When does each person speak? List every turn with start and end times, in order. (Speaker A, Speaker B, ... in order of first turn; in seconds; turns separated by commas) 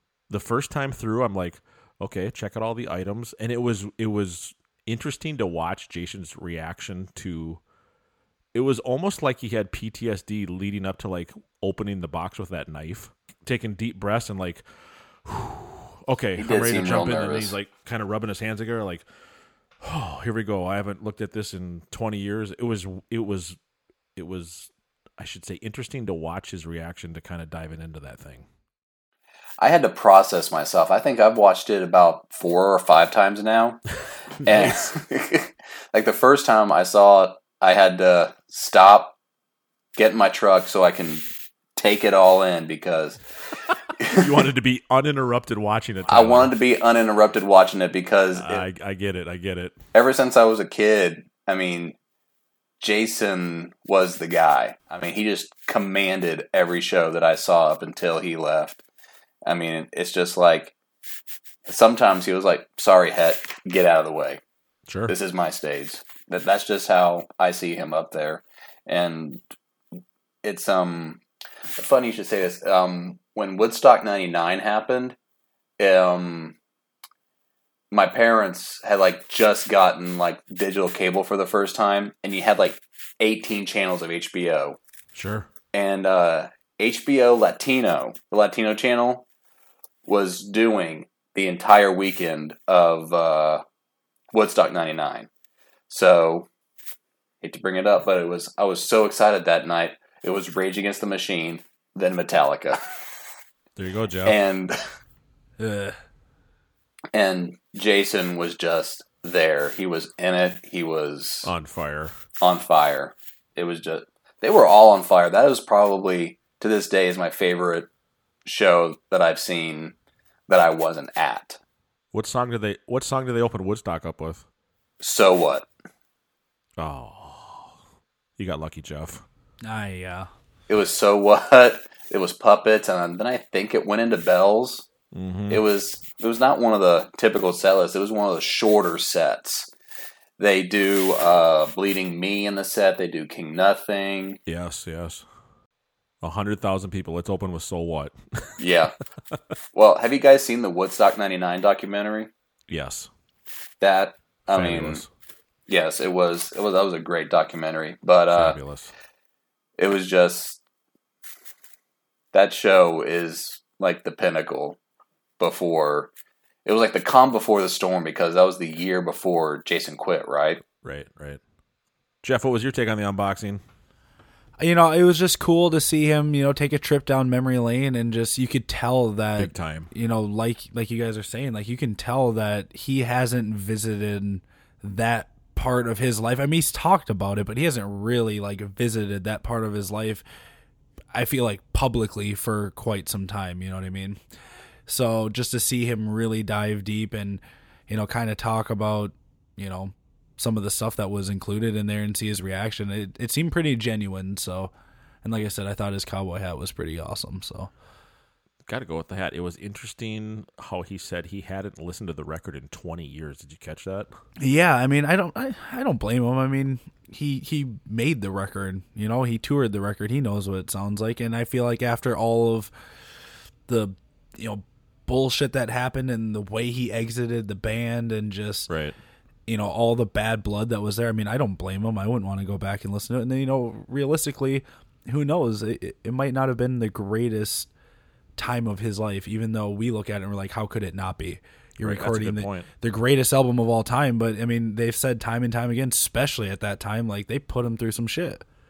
Speaker A: 0.3-7.6, Speaker A: 8.5-14.7, Speaker A: 15.2-19.0, Speaker B: 16.4-17.5, Speaker A: 19.8-23.6, Speaker A: 24.1-28.4, Speaker B: 29.6-33.8, Speaker B: 34.4-39.1, Speaker B: 40.0-41.2, Speaker B: 41.8-43.2, Speaker B: 44.0-44.3, Speaker A: 44.1-46.5, Speaker B: 46.1-48.6, Speaker A: 48.3-49.8, Speaker B: 49.9-52.0, Speaker B: 52.8-58.8, Speaker B: 59.4-60.7, Speaker B: 61.7-64.4, Speaker A: 64.9-65.1, Speaker B: 65.1-69.4, Speaker B: 70.4-71.2, Speaker B: 71.8-75.2, Speaker B: 75.8-76.5, Speaker B: 77.9-84.8, Speaker A: 85.1-85.5, Speaker B: 85.7-89.2, Speaker B: 90.0-93.6, Speaker B: 94.3-95.3, Speaker B: 95.9-96.5, Speaker B: 97.4-102.8, Speaker A: 103.8-104.4, Speaker B: 104.2-104.8, Speaker C: 105.6-106.0, Speaker B: 107.1-111.5, Speaker A: 111.4-112.1, Speaker B: 112.4-117.9, Speaker B: 118.4-119.9, Speaker B: 120.5-121.6, Speaker A: 122.1-124.5, Speaker B: 125.0-125.7, Speaker A: 126.8-127.8, Speaker A: 128.4-129.2, Speaker C: 129.6-130.3, Speaker B: 130.7-134.9, Speaker A: 135.1-135.6, Speaker B: 135.5-139.7, Speaker B: 140.4-144.4, Speaker A: 144.5-145.2, Speaker A: 146.2-148.6, Speaker B: 148.6-149.0, Speaker B: 149.7-152.3, Speaker A: 152.7-153.1, Speaker B: 153.8-155.0, Speaker A: 154.5-155.1, Speaker B: 155.7-158.6, Speaker A: 158.3-158.9, Speaker B: 159.8-160.6, Speaker B: 162.3-164.8, Speaker B: 165.4-166.1, Speaker B: 166.6-170.6, Speaker A: 170.8-171.4, Speaker A: 172.2-173.6, Speaker C: 174.6-190.2, Speaker A: 179.4-179.9, Speaker C: 191.1-194.2, Speaker C: 194.9-204.7, Speaker C: 205.2-207.7, Speaker A: 208.7-214.1, Speaker C: 214.4-222.7, Speaker C: 223.7-228.7, Speaker A: 228.7-228.9, Speaker C: 229.5-237.7, Speaker C: 238.4-248.4, Speaker A: 241.8-242.7